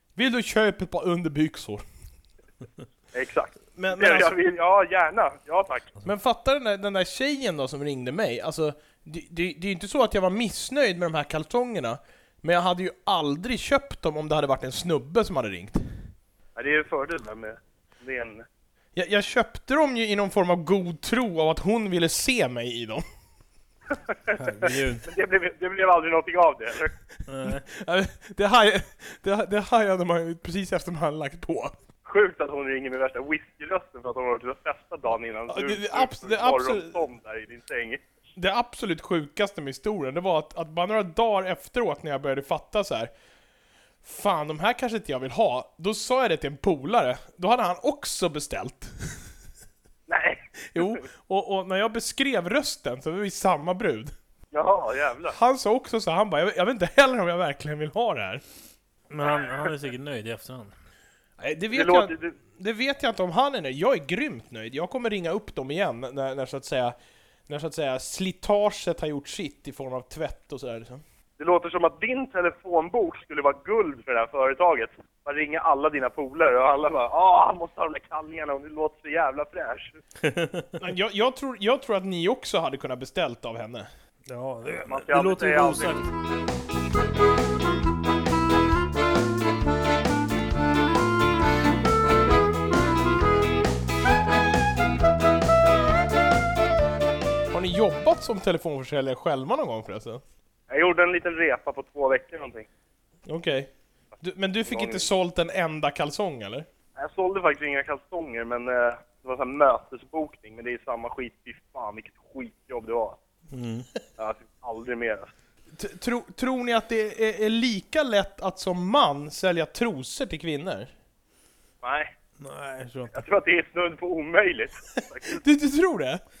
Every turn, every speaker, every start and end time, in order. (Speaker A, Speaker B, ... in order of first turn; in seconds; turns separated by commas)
Speaker A: 0.2-1.8, Speaker B: 3.1-5.9, Speaker A: 3.8-4.4, Speaker A: 6.0-15.9, Speaker B: 16.6-18.4, Speaker A: 18.9-23.0, Speaker B: 24.1-26.9, Speaker C: 24.4-25.0, Speaker C: 27.3-27.6, Speaker A: 27.4-31.7, Speaker B: 32.0-38.0, Speaker A: 35.5-37.0, Speaker A: 38.4-43.1, Speaker A: 44.0-49.2, Speaker B: 50.1-51.0, Speaker A: 50.7-54.1, Speaker B: 54.5-55.4, Speaker A: 55.3-58.4, Speaker C: 59.1-60.7, Speaker B: 59.2-59.7, Speaker A: 61.4-67.0, Speaker B: 61.7-62.4, Speaker A: 67.5-71.0, Speaker B: 71.4-80.0, Speaker C: 80.2-80.8, Speaker A: 80.8-83.9, Speaker C: 84.3-86.1, Speaker B: 84.9-86.0, Speaker A: 97.5-100.2, Speaker B: 100.7-102.7, Speaker A: 103.2-106.7, Speaker B: 104.6-105.1, Speaker B: 107.0-113.2, Speaker C: 113.5-113.9, Speaker B: 114.2-115.3, Speaker A: 115.7-120.9, Speaker B: 121.8-122.1, Speaker C: 122.4-123.2, Speaker B: 123.1-125.4, Speaker A: 125.3-126.2